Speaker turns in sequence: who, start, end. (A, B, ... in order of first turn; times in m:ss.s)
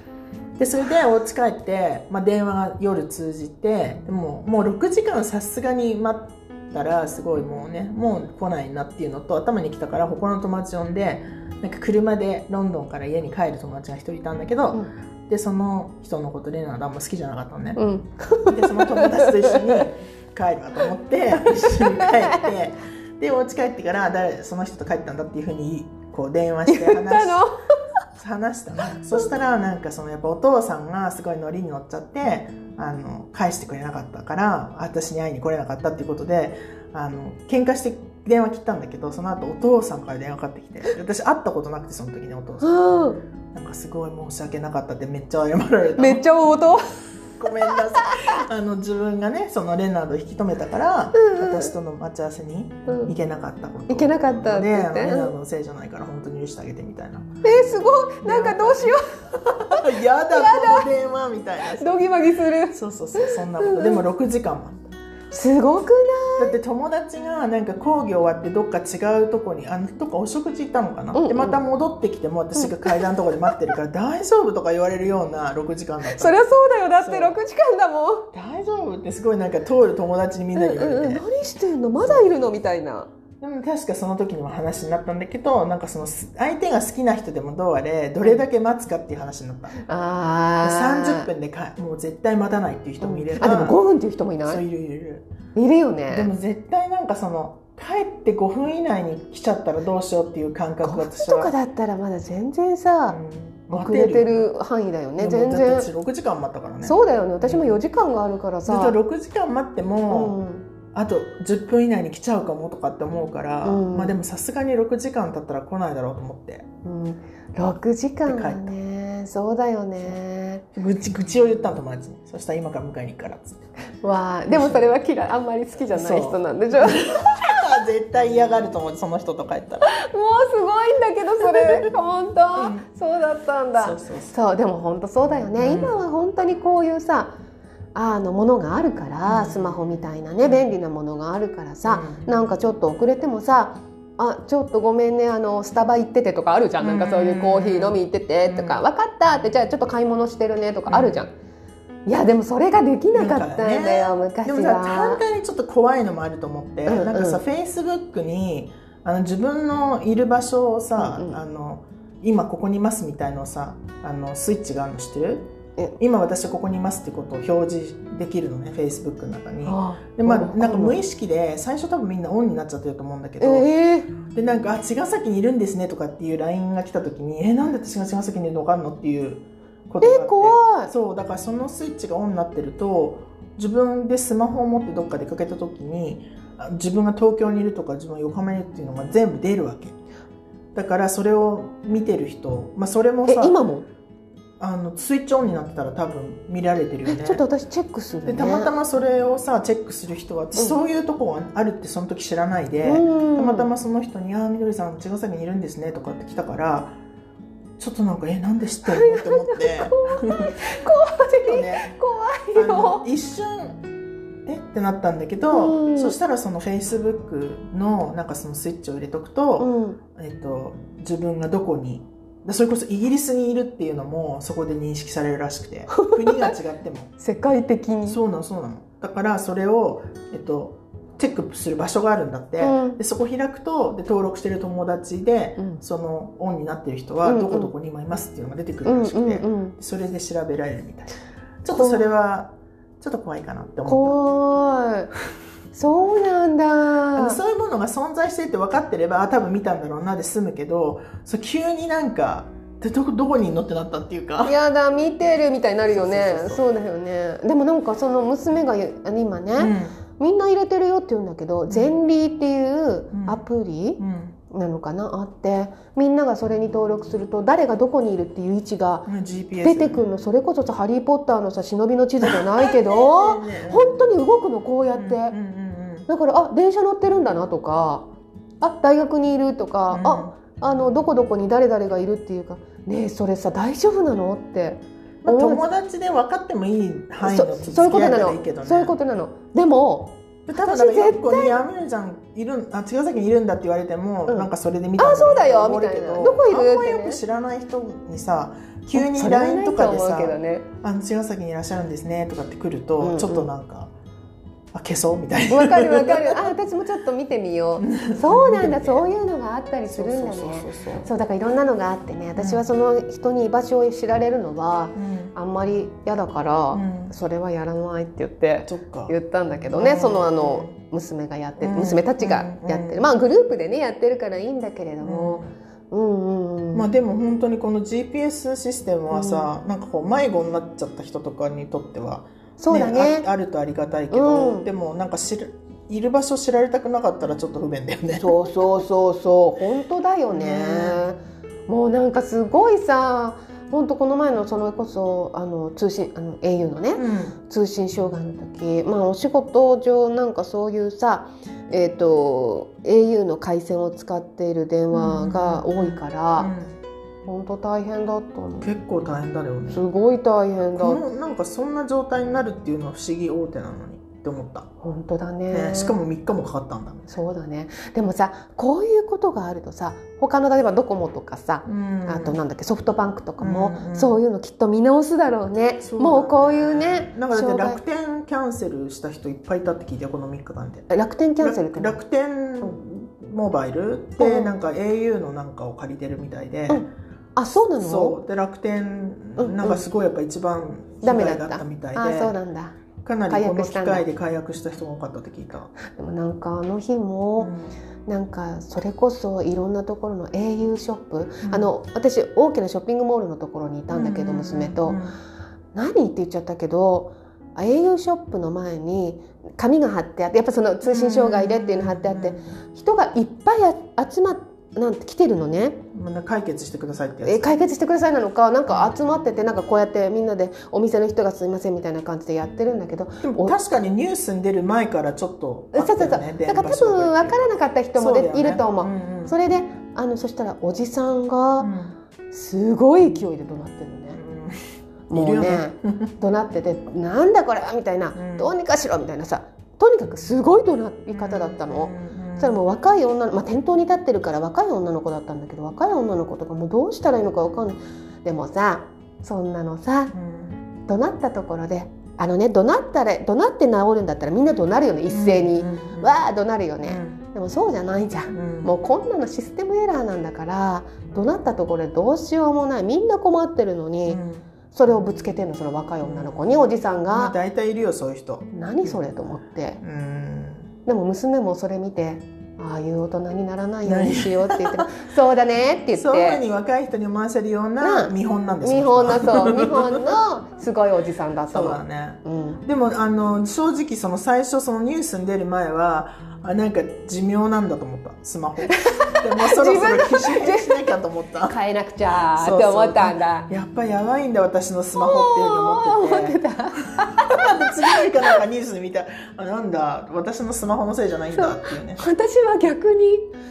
0:00.6-0:17.8 A
0:17.8-0:19.8 B
0:18.5-0:27.4 A
0:21.5-0:22.5 B
0:26.7-0:27.7 B
0:28.2-0:46.2 A
0:42.6-0:43.2 B
0:46.0-0:48.4 B
0:47.4-0:57.3 A
0:51.1-0:51.7 B
0:52.9-0:53.1 B
0:53.9-0:55.3 B
0:57.4-1:00.9 B
0:58.2-1:02.0 A
1:01.7-1:04.0 B
1:02.7-1:04.8 A
1:05.3-1:06.6 B
1:06.4-1:16.4 A
1:11.1-1:11.6 B
1:12.6-1:13.7 B
1:16.1-1:18.3 B
1:17.0-1:17.4 A
1:18.3-1:21.2 A
1:20.5-1:23.1 B
1:22.0-1:22.3 A
1:23.4-1:29.8 A
1:29.8-1:31.3 B
1:30.6-1:33.8 A
1:33.0-1:34.6 B
1:34.4-1:35.3 A
1:35.5-1:36.3 B
1:36.1-1:41.5 A
1:40.8-1:43.2 B
1:43.1-1:44.5 A
1:43.7-1:45.9 B
1:45.2-1:47.8 A
1:46.8-1:49.0 B
1:48.7-1:50.4 A
1:50.1-1:50.6 B
1:50.9-1:56.6 A
1:53.6-1:54.2 B
1:56.8-2:00.6 B
1:58.2-1:58.7 A
2:00.7-2:03.6 A
2:04.0-2:07.6 B
2:04.5-2:05.0 A
2:05.9-2:09.9 A
2:09.8-2:17.3 B
2:11.4-2:11.9 A
2:12.6-2:12.8 A
2:13.8-2:14.3 A
2:15.6-2:16.0 A
2:17.9-2:31.3 B
2:19.2-2:20.7 A
2:21.8-2:22.3 A
2:26.8-2:28.8 A
2:30.9-2:31.2 A
2:32.0-2:35.2 B
2:33.1-2:45.5 A
2:36.8-2:37.4 B
2:41.0-2:41.4 B
2:46.0-3:10.0 A
2:49.6-2:51.0 B
2:53.4-2:54.1 B
3:00.0-3:00.9 B
3:10.7-3:13.5 A
3:13.3-3:13.9 B
3:14.6-3:17.4 A
3:17.0-3:18.7 B
3:18.2-3:27.0 A
3:22.8-3:23.7 B
3:27.8-3:30.5 A
3:28.8-3:33.0 B
3:31.4-3:31.9 A
3:32.5-3:33.8 A
3:34.4-3:47.1 A
3:35.4-3:36.2 B
3:39.6-3:40.0 B
3:45.9-3:46.5 B
3:47.2-3:48.2 B
3:48.0-4:04.2 A
3:52.6-3:53.0 B
3:57.2-3:57.7 B
3:58.8-3:59.8 B
4:01.7-4:02.1 B
4:03.8-4:05.1 B
4:05.7-4:07.4 B
4:07.2-4:14.6 A
4:14.4-4:29.1 B
4:15.9-4:16.6 A
4:19.6-4:20.0 A
4:21.7-4:22.0 A
4:23.1-4:23.4 A
4:24.0-4:24.3 A
4:29.0-4:30.0 A
4:29.6-4:35.3 B
4:32.2-4:34.0 A
4:34.9-4:36.1 A
4:36.1-4:38.0 B
4:38.6-4:45.6 B
4:39.9-4:40.3 A
4:45.2-4:49.0 A
4:47.2-4:51.6 B
4:50.4-5:03.9 A
4:54.3-4:57.2 B
4:58.9-5:00.7 B
5:03.0-5:03.5 B
5:04.7-5:06.4 A
5:05.5-5:26.9 B
5:07.8-5:09.1 A
5:09.9-5:11.1 A
5:12.4-5:12.6 A
5:14.9-5:15.3 A
5:16.7-5:17.1 A
5:18.6-5:19.1 A
5:19.7-5:20.7 A
5:21.6-5:23.1 A
5:25.0-5:25.5 A
5:26.7-5:38.4 A
5:29.1-5:29.5 B
5:32.6-5:33.3 B
5:34.1-5:34.7 B
5:38.2-5:56.5 B
5:40.3-5:41.0 A
5:46.9-5:47.4 A
5:54.9-5:56.7 A
5:57.2-5:58.7 B
5:58.6-5:59.8 A
5:59.7-6:01.0 B
6:00.8-6:04.7 A
6:04.8-6:06.0 B
6:05.5-6:07.2 A
6:07.1-6:17.8 B
6:11.6-6:12.4 A
6:13.4-6:14.2 A
6:15.8-6:26.8 A
6:20.9-6:22.0 B
6:24.2-6:24.5 B
6:26.7-6:28.2 B
6:27.7-6:32.3 A
6:29.4-6:29.8 B
6:31.0-6:34.1 B
6:33.0-6:35.7 A
6:35.8-6:37.5 B
6:37.4-6:37.7 A
6:38.1-6:45.0 B
6:41.4-6:41.7 A
6:43.9-6:45.2 A
6:45.7-6:55.8 B
6:50.8-6:52.4 A
6:55.9-6:57.5 A
6:57.2-7:03.5 B
7:03.2-7:09.3 A
7:05.7-7:11.7 B
7:11.6-7:12.0 A
7:12.3-7:14.2 B
7:14.1-7:14.6 A
7:15.1-7:30.1 B
7:15.1-7:16.1 A
7:18.1-7:18.5 A
7:21.1-7:22.6 A
7:30.1-7:30.6 A
7:30.9-7:44.2 B
7:35.1-7:36.2 A
7:36.8-7:37.2 A
7:38.3-7:38.7 A
7:44.0-7:44.4 A
7:44.7-7:47.3 B
7:46.0-7:49.0 A
7:48.5-7:49.8 B
7:49.8-7:50.7 A
7:50.8-7:56.4 B
7:53.8-7:54.9 A
7:55.9-8:00.1 A
7:57.8-8:02.6 B
8:01.5-8:11.6 A
8:08.6-8:11.0 B
8:11.5-8:13.5 B
8:12.3-8:22.0 A
8:14.9-8:18.4 B
8:21.3-8:23.3 B